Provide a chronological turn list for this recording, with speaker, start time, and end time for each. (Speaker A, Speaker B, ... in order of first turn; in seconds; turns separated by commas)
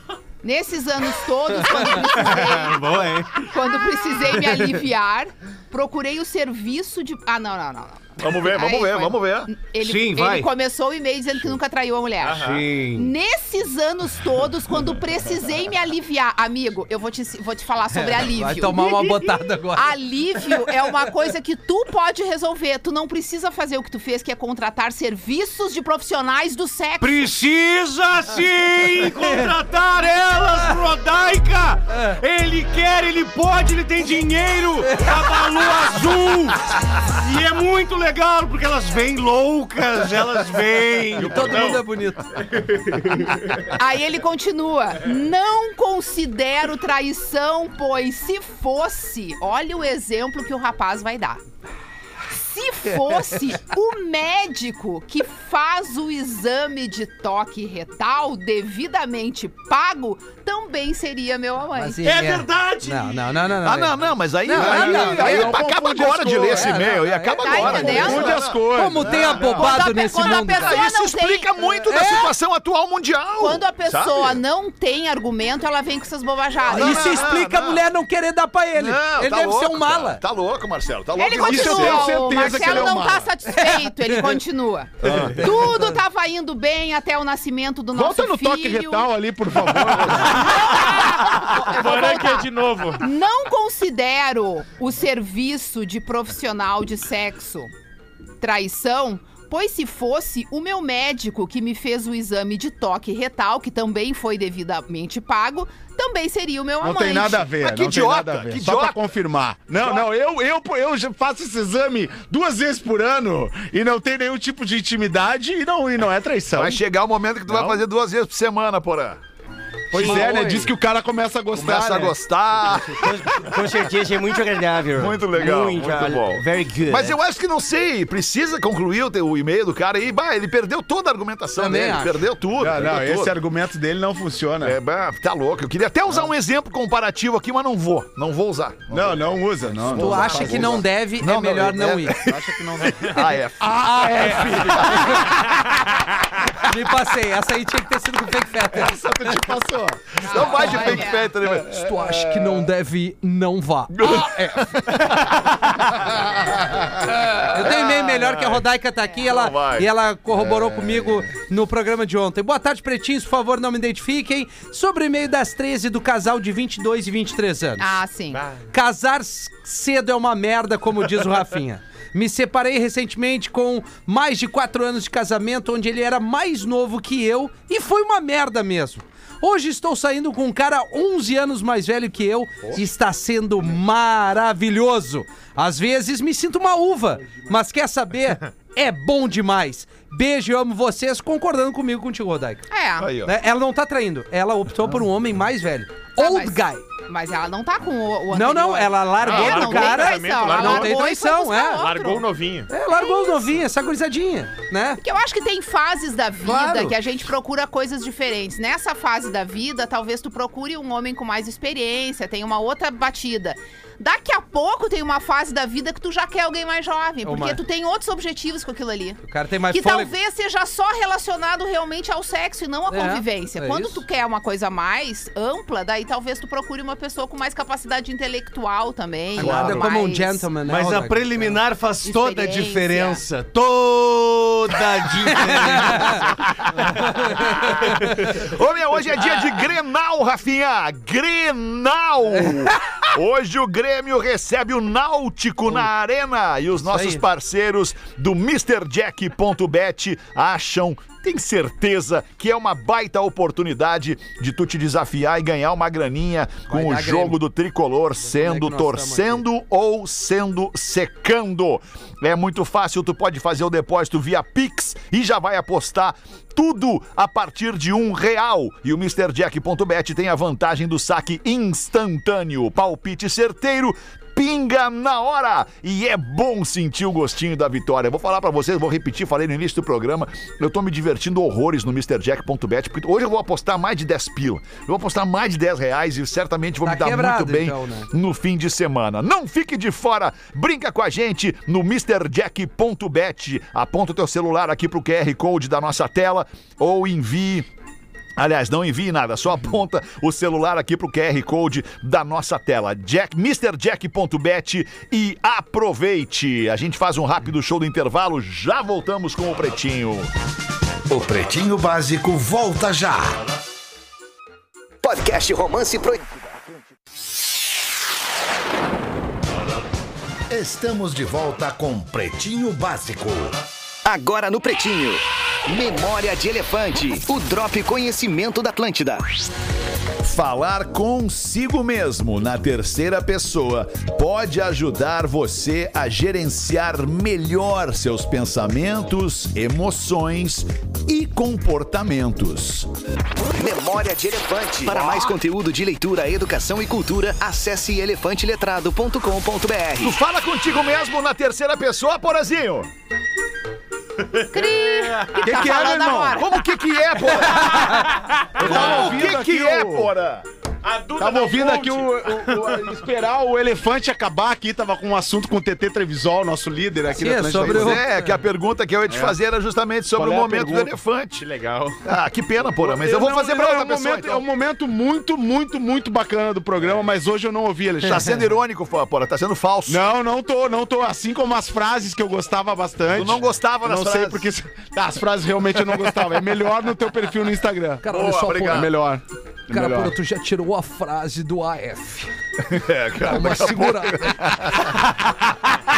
Speaker A: 0.4-2.9, Speaker B: 2.6-3.0, Speaker C: 2.9-3.3, Speaker A: 3.4-27.3, Speaker D: 8.2-9.5, Speaker B: 9.8-10.5, Speaker C: 10.1-10.4, Speaker E: 12.2-12.7, Speaker B: 12.4-13.1, Speaker F: 17.9-20.0, Speaker B: 27.0-41.5, Speaker F: 34.9-35.4, Speaker F: 41.2-42.3, Speaker E: 41.3-41.8, Speaker E: 42.4-43.2, Speaker A: 43.5-51.4, Speaker A: 52.3-62.2, Speaker F: 61.8-65.7, Speaker B: 62.0-63.0, Speaker D: 63.6-69.6, Speaker G: 64.5-66.9, Speaker F: 66.3-70.8, Speaker A: 67.4-68.5, Speaker G: 67.8-69.3, Speaker A: 69.2-71.8, Speaker D: 70.5-74.4, Speaker F: 71.9-72.3, Speaker A: 73.4-77.3, Speaker D: 76.6-77.8, Speaker F: 76.7-80.2, Speaker D: 78.7-82.9, Speaker A: 81.2-89.1, Speaker G: 81.3-83.3, Speaker F: 83.5-84.4, Speaker D: 85.0-85.5, Speaker F: 85.4-86.0, Speaker G: 87.9-90.5, Speaker A: 90.2-97.7, Speaker E: 91.4-93.1, Speaker A: 98.4-107.5, Speaker G: 106.8-116.8, Speaker D: 107.6-109.0, Speaker D: 116.5-119.2, Speaker G: 117.5-117.8, Speaker G: 119.9-122.2, Speaker D: 119.9-120.4, Speaker F: 120.0-120.7, Speaker D: 121.5-123.5, Speaker C: 123.0-127.2, Speaker D: 125.0-133.3, Speaker F: 131.6-132.3, Speaker G: 132.6-134.8, Speaker D: 134.6-145.3, Speaker G: 138.9-140.8, Speaker F: 139.9-142.3, Speaker G: 142.2-145.3, Speaker F: 143.0-143.3, Speaker F: 143.8-145.3, Speaker F: 146.6-149.4, Speaker G: 148.7-150.2, Speaker D: 150.2-152.3, Speaker A: 150.2-151.3, Speaker F: 150.6-154.6, Speaker D: 153.9-156.2, Speaker D: 157.0-158.6, Speaker F: 157.5-167.9, Speaker D: 159.2-159.9, Speaker A: 167.8-168.4, Speaker F: 168.7-192.7, Speaker A: 192.7-193.1, Speaker D: 193.0-193.3, Speaker F: 193.2-196.8, Speaker A: 196.2-202.3, Speaker F: 198.3-201.8, Speaker E: 199.2-201.0, Speaker E: 201.8-202.7, Speaker F: 202.7-205.0, Speaker A: 202.9-203.4, Speaker A: 205.0-230.5, Speaker B: 206.5-206.9, Speaker F: 217.2-217.6, Speaker F: 219.2-220.1, Speaker F: 222.9-224.0, Speaker F: 229.3-231.6, Speaker D: 229.4-229.9, Speaker B: 230.7-236.2, Speaker A: 232.0-233.2, Speaker C: 235.0-236.2, Speaker F: 235.3-236.2, Speaker D: 236.7-297.7, Speaker F: 237.1-238.3, Speaker F: 246.9-247.2, Speaker F: 256.7-257.4, Speaker F: 258.2-259.4, Speaker F: 286.8-288.1, Speaker D: 298.4-310.3, Speaker H: 311.1-313.4, Speaker I: 315.0-316.5, Speaker H: 320.5-323.6, Speaker I: 324.1-329.2, Speaker D: 330.2-342.9, Speaker I: 343.5-350.2, Speaker D: 344.9-345.4, Speaker D: 350.0-352.9, Speaker A: 354.5-356.6, Speaker E: 354.6-355.3, Speaker G: 355.4-356.4, Speaker D: 356.3-360.5, Speaker F: 357.6-357.9, Speaker G: 358.6-360.1, Speaker E: 360.8-362.9, Speaker G: 361.2-368.0, Speaker F: 367.1-368.3, Speaker D: 367.6-371.4, Speaker G: 369.1-369.3, Speaker G: 370.1-370.9, Speaker E: 371.4-372.0, Speaker D: 372.0-374.4, Speaker G: 372.8-378.4, Speaker D: 378.1-380.1, Speaker G: 379.9-390.1, Speaker D: 383.1-384.4, Speaker F: 388.0-388.9, Speaker D: 388.1-388.9, Speaker F: 389.7-392.3, Speaker D: 392.6-395.0, Speaker F: 393.2-394.4